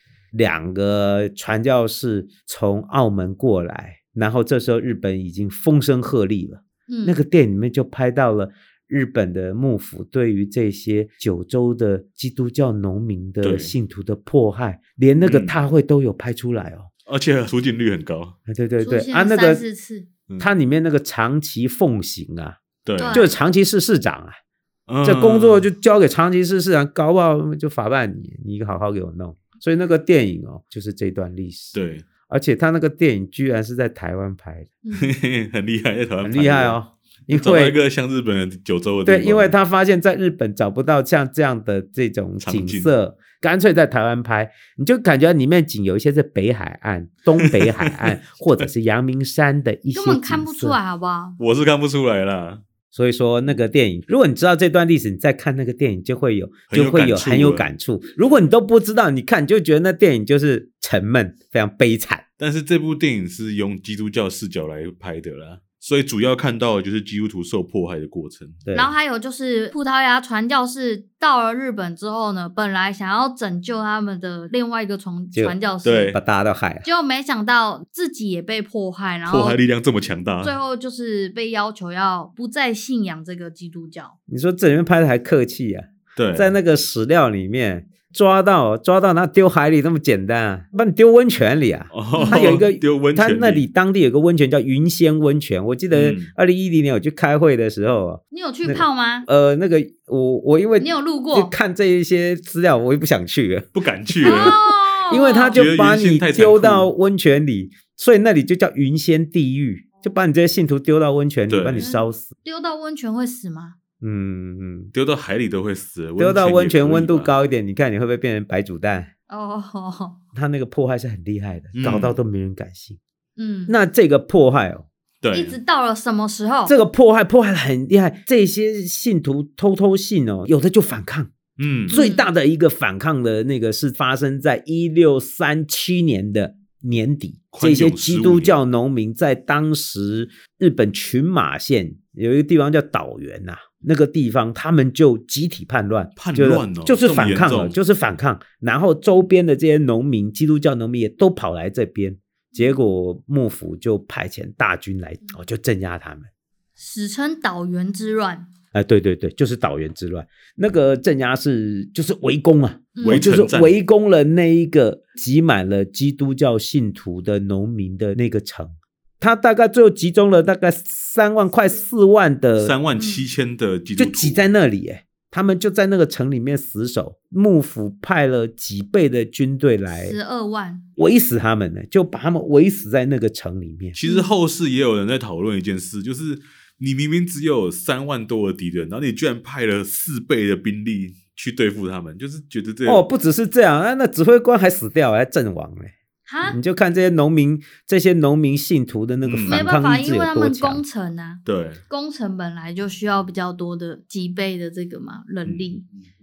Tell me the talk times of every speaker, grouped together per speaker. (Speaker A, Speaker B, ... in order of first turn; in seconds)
Speaker A: 0.3-16.9, 18.5-19.6, 20.4-24.4, 25.0-31.8, 32.3-34.8, 36.2-37.8, 39.1-50.8, 52.9-62.2, 68.7-68.9, 76.1-76.9, 84.3-112.3, 114.0-114.9, 116.2-119.1, 120.3-123.0, 123.7-124.9, 126.7-131.3, 131.9-156.3, 158.7-172.8, 174.0-180.2, 181.0-184.0, 192.9-200.8
Speaker B: 6.9-7.2, 18.8-20.1, 23.0-23.3, 34.8-35.1, 49.9-51.4, 68.7-76.2, 76.8-79.6, 80.4-84.2, 92.1-92.5, 98.3-99.3, 100.8-101.5, 104.2-105.6, 111.8-113.8, 119.3-120.2, 123.4-123.8, 125.3-126.8, 131.9-132.3, 152.6-152.8, 156.8-158.5, 163.0-163.3, 173.0-173.2, 179.9-180.9, 184.0-184.3, 196.3-196.6, 199.5-205.8
Speaker C: 13.4-13.7, 15.2-15.6, 17.1-18.4, 22.9-23.2, 24.9-25.7, 31.7-32.1, 34.9-36.8, 37.3-39.5, 42.4-42.9, 47.4-48.1, 51.4-52.6, 56.7-57.7, 62.4-68.6, 75.8-76.2, 79.3-80.6, 86.2-86.5, 91.9-93.6, 95.9-96.3, 103.7-104.6, 105.5-106.9, 111.5-111.9, 114.9-117.3, 121.8-122.2, 125.2-125.6, 131.6-132.0, 137.5-138.6, 146.2-147.8, 163.0-163.8, 172.6-174.5, 183.9-193.0, 199.2-199.6, 201.4-201.8, 205.4-205.8